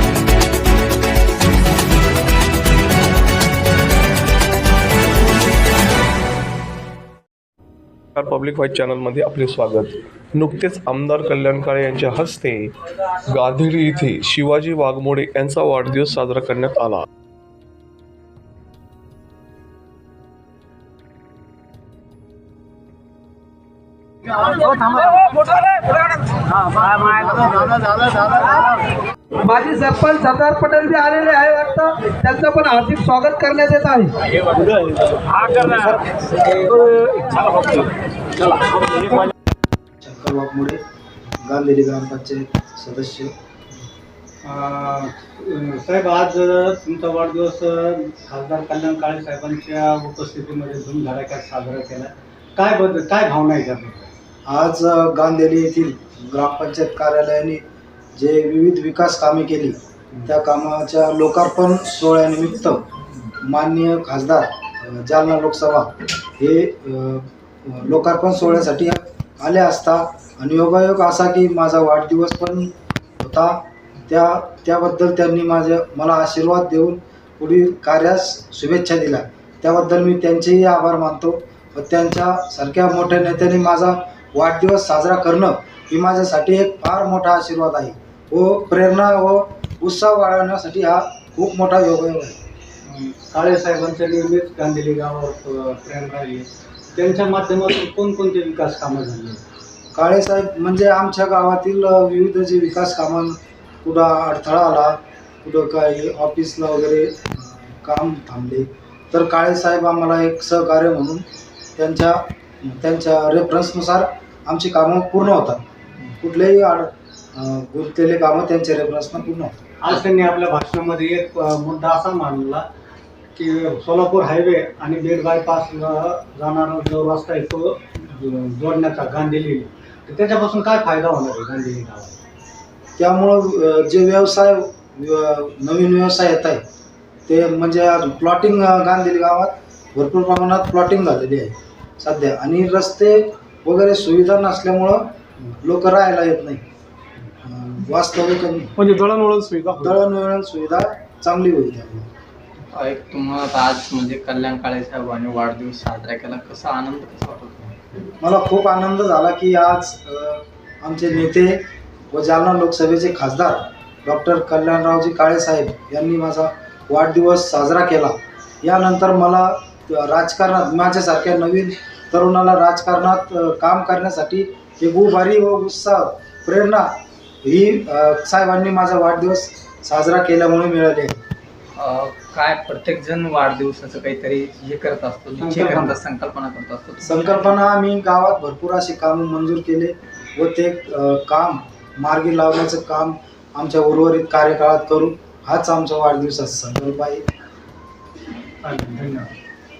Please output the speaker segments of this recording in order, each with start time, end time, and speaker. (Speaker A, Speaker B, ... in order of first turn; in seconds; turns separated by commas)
Speaker A: 8.2-12.7, Speaker A: 13.2-17.1, Speaker B: 29.4-34.2, Speaker C: 40.0-40.8, Speaker C: 41.4-43.3, Speaker D: 44.4-54.1, Speaker C: 54.5-57.6, Speaker C: 58.1-62.9, Speaker C: 63.4-92.4, Speaker D: 92.8-99.4, Speaker C: 99.9-111.2, Speaker C: 111.8-115.6, Speaker C: 116.2-119.5, Speaker D: 119.8-122.7, Speaker D: 123.3-132.2, Speaker C: 133.0-136.6, Speaker C: 137.3-145.1, Speaker C: 145.6-146.6, Speaker C: 147.4-148.9, Speaker D: 148.9-149.4, Speaker C: 149.7-152.1, Speaker E: 152.7-157.8, Speaker C: 158.2-161.6, Speaker C: 162.1-176.9, Speaker C: 177.4-181.2, Speaker E: 181.8-187.5, Speaker D: 185.4-185.9, Speaker C: 187.0-197.2, Speaker D: 198.6-199.3